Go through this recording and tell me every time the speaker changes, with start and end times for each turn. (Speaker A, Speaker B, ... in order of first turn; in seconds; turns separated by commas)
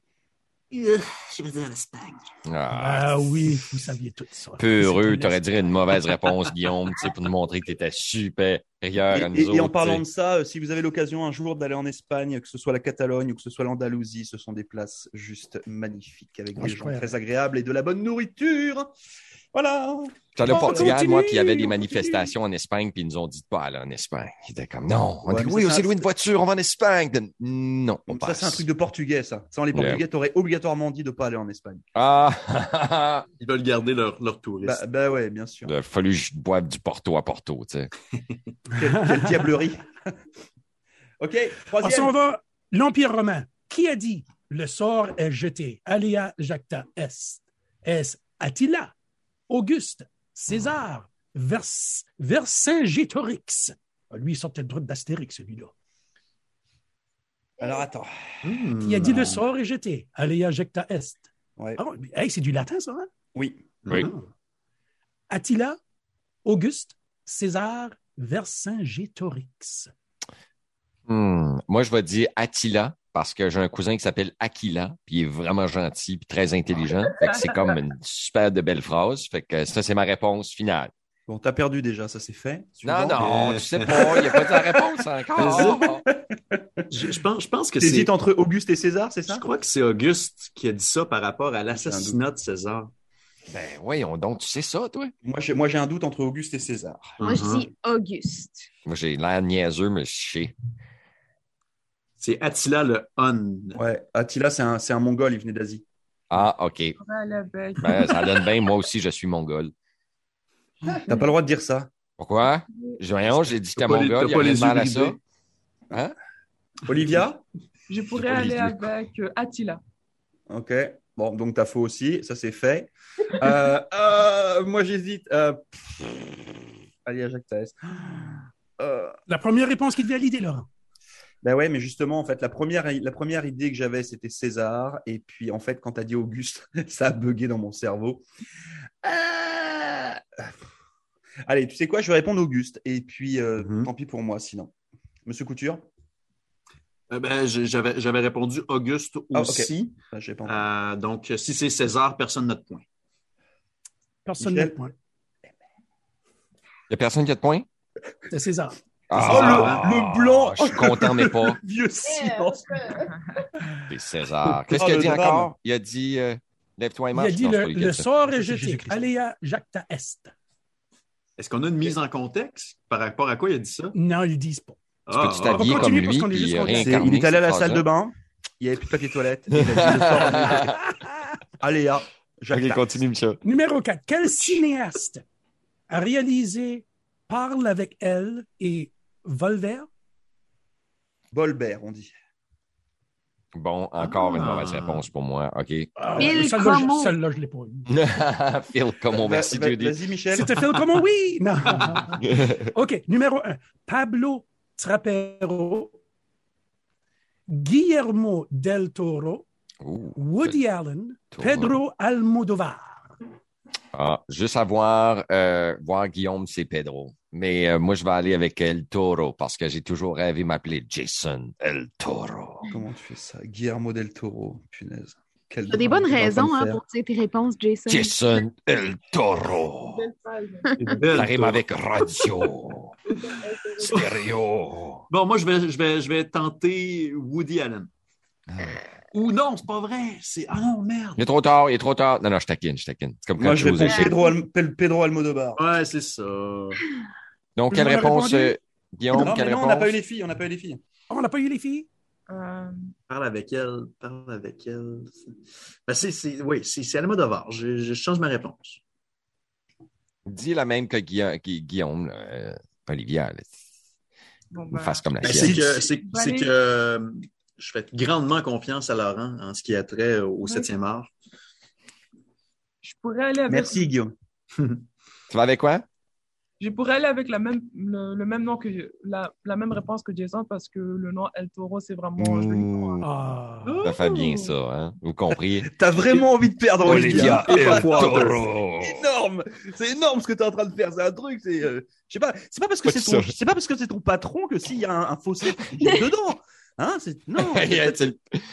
Speaker A: 0.7-2.2, Speaker B: 2.5-3.6, Speaker C: 2.7-5.4, Speaker B: 4.6-10.0, Speaker D: 9.1-18.9, Speaker C: 16.6-17.2, Speaker D: 19.5-21.0, Speaker B: 20.4-28.6, Speaker C: 20.4-22.3, Speaker D: 25.3-26.1, Speaker D: 28.1-31.8, Speaker B: 29.7-30.0, Speaker B: 31.9-33.2, Speaker A: 33.4-34.8, Speaker D: 34.6-35.7, Speaker B: 35.7-37.9, Speaker D: 38.7-40.0, Speaker D: 41.2-42.1, Speaker C: 41.8-48.9, Speaker C: 49.5-55.7, Speaker D: 57.6-58.1, Speaker A: 58.4-59.4, Speaker C: 58.8-63.1, Speaker D: 63.4-63.8, Speaker A: 63.9-64.1, Speaker C: 63.9-64.3, Speaker C: 65.3-65.8, Speaker C: 66.5-69.9, Speaker B: 71.1-80.9, Speaker D: 81.3-83.3, Speaker B: 82.8-86.0, Speaker A: 83.2-84.5, Speaker D: 83.9-84.3, Speaker A: 85.4-86.0, Speaker D: 85.4-86.6, Speaker A: 86.9-88.1, Speaker D: 87.8-89.5, Speaker A: 89.3-92.9, Speaker D: 91.7-92.2, Speaker B: 93.5-95.1, Speaker D: 95.2-97.2, Speaker A: 97.2-97.7, Speaker E: 97.2-98.7, Speaker B: 98.9-100.5, Speaker A: 102.2-103.8, Speaker D: 103.8-105.8, Speaker B: 106.3-107.0, Speaker F: 107.0-108.5, Speaker B: 107.8-109.7, Speaker D: 110.8-111.9, Speaker B: 112.2-115.2, Speaker A: 113.8-115.2, Speaker D: 116.9-117.4, Speaker F: 117.9-119.8, Speaker B: 118.1-118.9, Speaker D: 120.5-129.2, Speaker C: 129.3-130.7, Speaker D: 131.4-138.2, Speaker D: 139.0-140.5, Speaker D: 141.5-144.7, Speaker A: 143.6-143.9, Speaker D: 145.3-145.9, Speaker A: 147.1-149.9, Speaker D: 149.3-150.7, Speaker A: 150.4-152.8, Speaker C: 154.2-154.9, Speaker D: 154.4-154.8, Speaker B: 156.9-157.7, Speaker C: 158.3-158.8, Speaker B: 159.1-161.6, Speaker D: 159.2-163.1, Speaker A: 159.2-159.9, Speaker B: 163.9-168.1, Speaker D: 164.7-165.5, Speaker C: 167.1-170.3, Speaker D: 168.4-169.0, Speaker A: 171.4-173.9, Speaker C: 173.9-174.8, Speaker A: 175.1-175.9, Speaker B: 175.1-177.9, Speaker C: 175.5-177.1, Speaker D: 176.7-180.8, Speaker B: 179.5-180.8, Speaker D: 181.6-183.0, Speaker B: 182.5-183.4, Speaker C: 183.4-185.2, Speaker C: 185.9-189.9, Speaker D: 191.3-192.1, Speaker B: 193.5-195.9, Speaker A: 194.1-195.1, Speaker C: 196.0-197.9, Speaker E: 196.2-197.1, Speaker B: 197.9-199.9, Speaker D: 199.1-200.5, Speaker C: 200.3-205.9, Speaker C: 207.5-209.4, Speaker B: 209.8-210.6, Speaker C: 210.2-213.2, Speaker B: 211.3-211.8, Speaker B: 213.9-222.7, Speaker D: 222.7-226.8, Speaker E: 225.7-228.2, Speaker B: 227.9-230.1, Speaker F: 229.8-231.2, Speaker A: 230.8-231.6, Speaker B: 231.1-232.9, Speaker F: 233.3-234.0, Speaker B: 233.8-235.1, Speaker A: 233.9-234.2, Speaker A: 235.1-237.9, Speaker B: 238.5-238.8, Speaker A: 239.1-241.2, Speaker B: 241.2-244.1, Speaker D: 243.4-245.6, Speaker E: 243.8-244.2, Speaker A: 245.6-246.8, Speaker B: 247.6-250.0, Speaker C: 247.7-248.6, Speaker D: 249.1-250.8, Speaker C: 251.1-251.9, Speaker F: 252.3-252.9, Speaker A: 253.1-255.3, Speaker A: 255.9-258.8, Speaker B: 260.3-263.5, Speaker F: 264.5-266.5, Speaker B: 264.7-265.6, Speaker A: 265.2-271.1, Speaker D: 265.3-265.7, Speaker F: 270.4-270.7, Speaker F: 272.8-273.9, Speaker D: 273.5-274.1, Speaker A: 274.6-274.8, Speaker B: 275.3-275.9, Speaker F: 276.6-283.0, Speaker B: 282.2-283.1, Speaker C: 283.0-283.8, Speaker A: 283.6-284.5, Speaker B: 283.8-285.7, Speaker D: 285.7-298.1, Speaker A: 286.8-288.4, Speaker B: 286.8-289.1, Speaker B: 292.9-293.3, Speaker B: 297.4-298.4